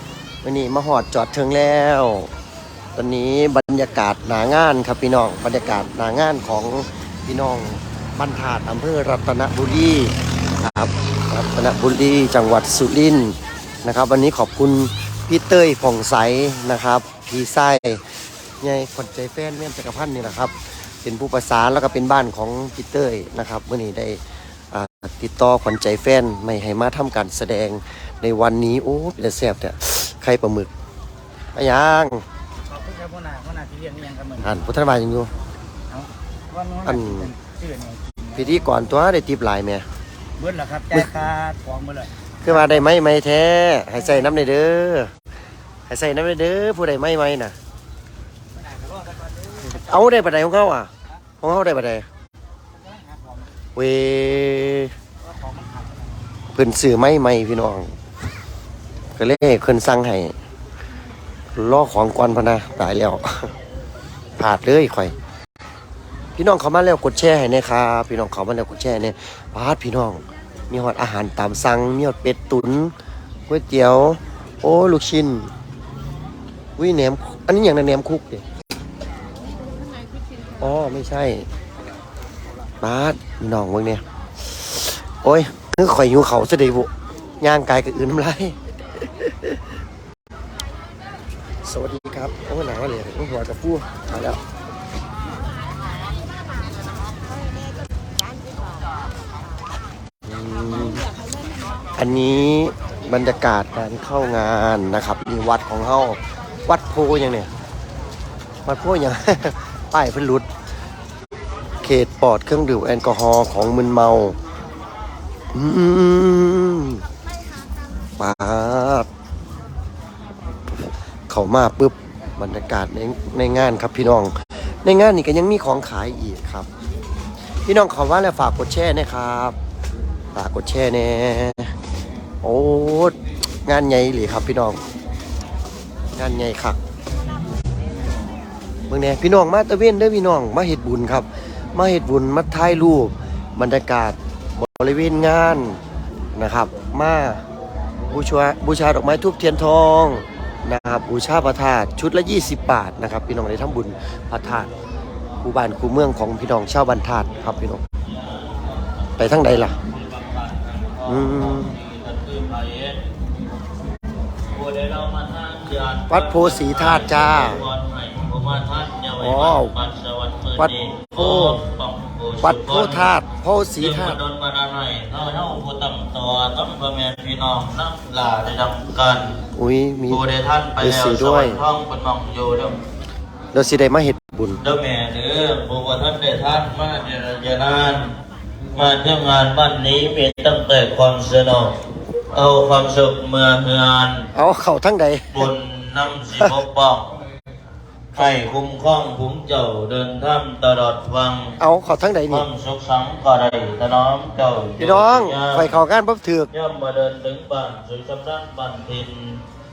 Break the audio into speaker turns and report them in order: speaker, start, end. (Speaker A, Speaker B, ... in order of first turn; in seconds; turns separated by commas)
Speaker A: 0.4-2.3, Speaker A: 3.0-18.0, Speaker A: 18.6-24.2, Speaker A: 24.7-30.7, Speaker A: 31.6-32.2, Speaker B: 32.7-34.5, Speaker A: 34.4-35.3, Speaker B: 35.9-38.5, Speaker A: 36.9-37.3, Speaker A: 38.4-39.9, Speaker B: 40.4-42.8, Speaker A: 42.4-45.1, Speaker A: 45.9-47.5, Speaker B: 48.5-49.7, Speaker A: 49.7-52.1, Speaker B: 52.9-53.5, Speaker A: 53.8-54.9, Speaker B: 55.2-56.0, Speaker A: 56.5-57.9, Speaker A: 59.2-60.3, Speaker A: 61.6-63.5, Speaker A: 64.4-65.2, Speaker A: 66.4-72.9, Speaker A: 73.5-75.5, Speaker A: 76.8-78.4, Speaker A: 80.6-81.5, Speaker A: 82.8-86.9, Speaker A: 87.4-89.6, Speaker A: 91.6-94.4, Speaker A: 100.3-101.1, Speaker A: 102.0-107.5, Speaker A: 108.7-110.5, Speaker A: 111.8-114.4, Speaker A: 115.5-117.0, Speaker A: 118.2-119.1, Speaker A: 121.3-124.3, Speaker A: 124.8-126.7, Speaker A: 127.7-129.6, Speaker A: 130.3-131.7, Speaker A: 132.4-133.2, Speaker A: 133.7-134.8, Speaker A: 136.2-136.8, Speaker A: 138.9-145.8, Speaker A: 146.3-147.4, Speaker A: 148.1-154.7, Speaker A: 155.4-157.8, Speaker C: 158.2-159.0, Speaker A: 159.2-159.8, Speaker C: 159.8-163.0, Speaker A: 161.1-161.8, Speaker C: 164.5-172.8, Speaker A: 166.1-167.6, Speaker A: 169.2-169.8, Speaker A: 170.6-171.6, Speaker A: 172.4-174.2, Speaker C: 173.8-179.4, Speaker A: 179.6-180.3, Speaker C: 180.1-182.8, Speaker A: 180.8-181.6, Speaker A: 183.5-184.6, Speaker C: 184.6-188.2, Speaker C: 188.8-194.3, Speaker A: 194.3-195.5, Speaker C: 195.3-197.2, Speaker A: 198.1-198.4, Speaker C: 198.2-201.6, Speaker A: 201.6-202.5, Speaker C: 202.3-205.6, Speaker A: 204.8-206.5, Speaker C: 206.5-209.4